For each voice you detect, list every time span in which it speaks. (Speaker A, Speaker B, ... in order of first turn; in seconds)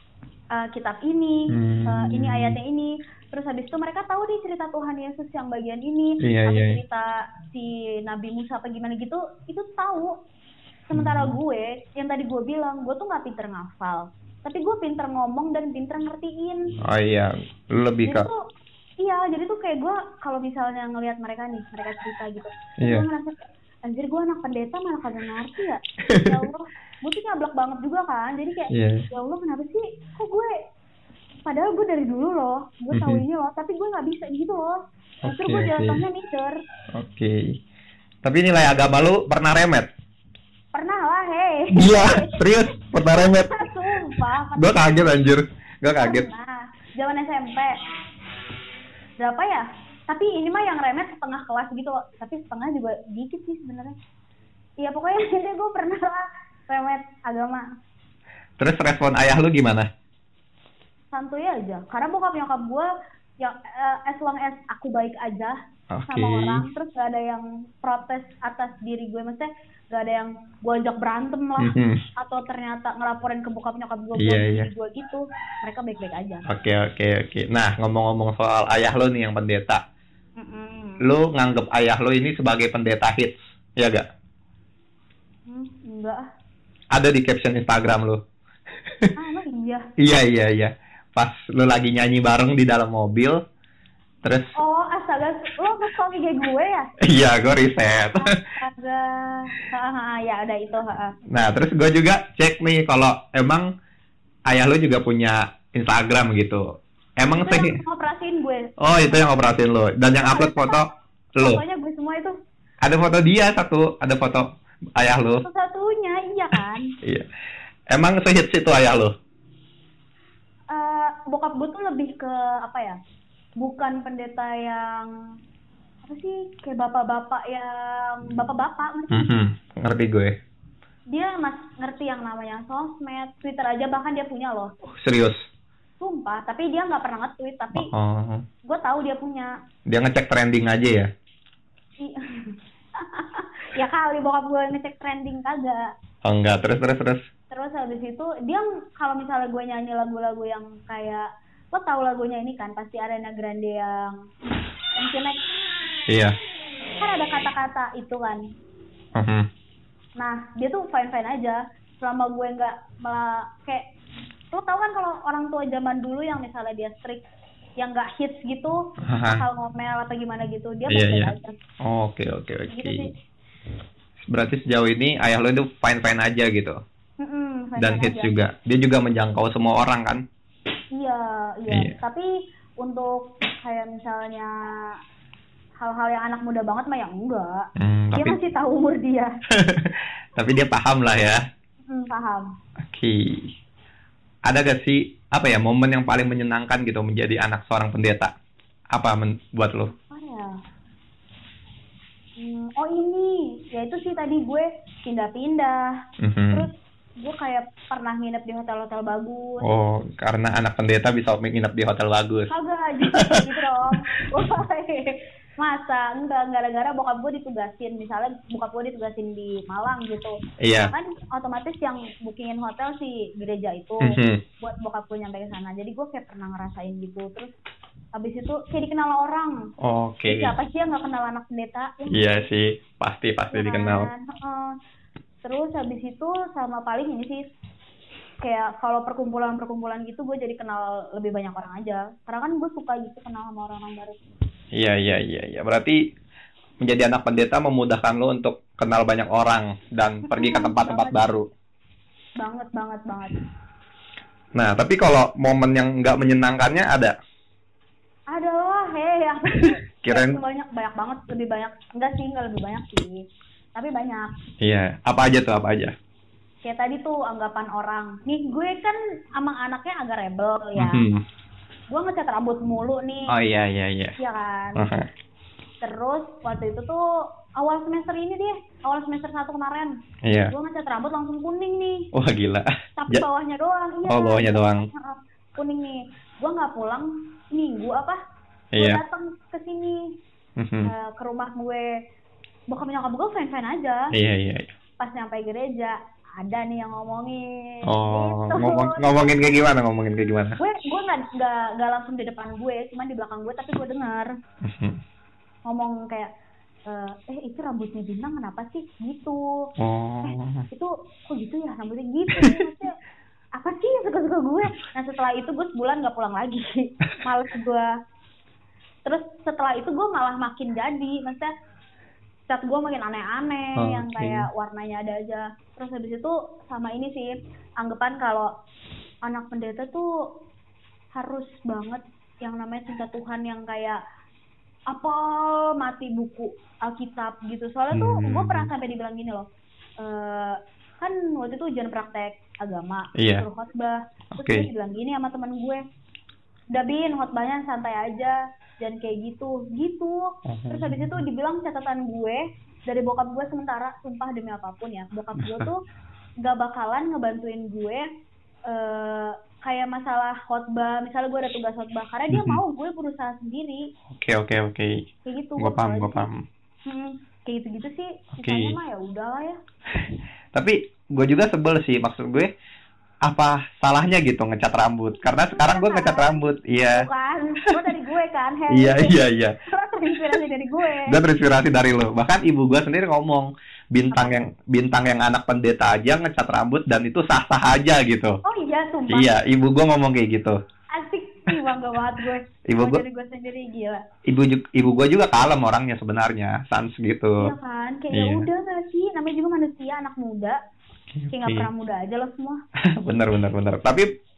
Speaker A: 0.5-10.1, 10.9-16.7, 18.1-18.4, 19.0-30.5, 31.4-36.5, 40.7-42.4, 43.1-45.1, 46.0-47.7, 49.2-54.0, 54.8-57.6, 61.1-62.9, 63.4-65.6, 66.1-76.4, 80.4-81.0, 85.5-86.3, 89.2-89.9, 94.5-96.9, 98.2-101.1, 107.3-109.3, 110.1-110.9, 111.4-112.3, 115.4-116.9, 120.7-123.0, 123.6-125.1, 126.0-129.3, 131.1-134.7, 136.0-137.9, 138.6-139.5, 142.0-145.9, 147.5-154.2, 154.9-155.4, 157.0-158.4, 160.2-163.8, 164.5-167.2, 167.8-171.6, 172.7-173.1, 177.2-178.3, 180.9-182.3, 182.8-184.8, 185.8-187.6, 188.1-189.3, 191.9-192.5, 199.9-200.5, 202.4-205.9, 206.5-209.6, 212.5-227.5, 228.2-229.6, 230.3-232.4, 233.5-234.7, 235.4-237.4, 238.4-244.2, 250.3-251.2, 252.4-253.4, 258.3-263.2, 263.7-264.3, 266.6-271.0, 271.9-273.3, 274.2-274.8, 275.8-277.0, 277.6-282.1, 283.0-288.2, 288.8-290.0, 290.8-291.9, 292.7-294.1, 295.0-299.6, 300.6-304.3, 305.6-306.3, 306.9-309.6, 310.2-312.9, 313.6-317.9, 319.1-321.5, 322.5-328.5, 329.2-330.1, 331.1-334.0, 334.9-339.4, 340.0-345.8, 346.7-355.8, 356.4-358.1, 358.7-363.8, 365.2-366.3, 366.9-369.6, 375.3-381.2, 388.4-389.3, 390.9-394.0, 397.4-400.6, 401.3-402.6
Speaker B: 1.5-2.6, 6.2-6.8, 10.9-11.3, 16.8-18.3, 26.1-26.4, 28.7-29.1, 32.9-33.2, 35.2-36.0, 36.9-37.5, 38.2-39.9, 41.7-43.7, 44.6-46.2, 58.6-59.9, 65.9-66.6, 71.6-72.0, 74.2-74.7, 76.5-79.8, 81.0-84.0, 86.9-88.2, 90.0-93.4, 94.2-94.5, 97.0-98.4, 101.3-103.7, 104.5-106.6, 107.2-107.8, 108.8-111.6, 112.8-114.5, 115.0-115.4, 117.9-119.1, 129.1-130.3, 134.8-135.4, 137.7-138.4, 139.9-141.1, 146.2-147.2, 156.1-156.3, 159.2-159.4, 169.1-169.4, 170.9-171.3, 171.8-173.1, 174.2-176.8, 177.8-180.2, 181.7-181.9, 187.8-188.4, 189.5-191.4, 192.8-193.5, 194.5-198.3, 198.9-199.9, 206.2-206.7, 209.6-212.5, 213.1-213.4, 220.6-220.9, 224.0-224.4, 229.8-230.5, 232.1-234.1, 244.8-246.0, 246.8-251.4, 254.5-257.1, 259.6-260.4, 264.6-265.9, 270.8-271.2, 273.3-274.1, 274.8-275.1, 280.2-280.5, 282.1-283.2, 284.1-284.8, 288.7-289.0, 290.6-290.9, 294.1-294.7, 297.9-300.6, 304.6-305.0, 309.8-310.6, 323.8-324.5, 337.9-338.7, 343.2-343.4, 344.4-344.7, 350.4-351.2, 355.4-355.7, 362.3-362.6, 364.1-365.1, 365.6-366.4, 368.4-368.8, 369.9-372.5, 373.2-377.1, 378.7-379.6, 380.1-380.4, 381.1-388.4, 389.1-390.6, 392.7-393.0, 394.2-397.5, 398.1-398.4, 401.1-401.7, 402.8-404.1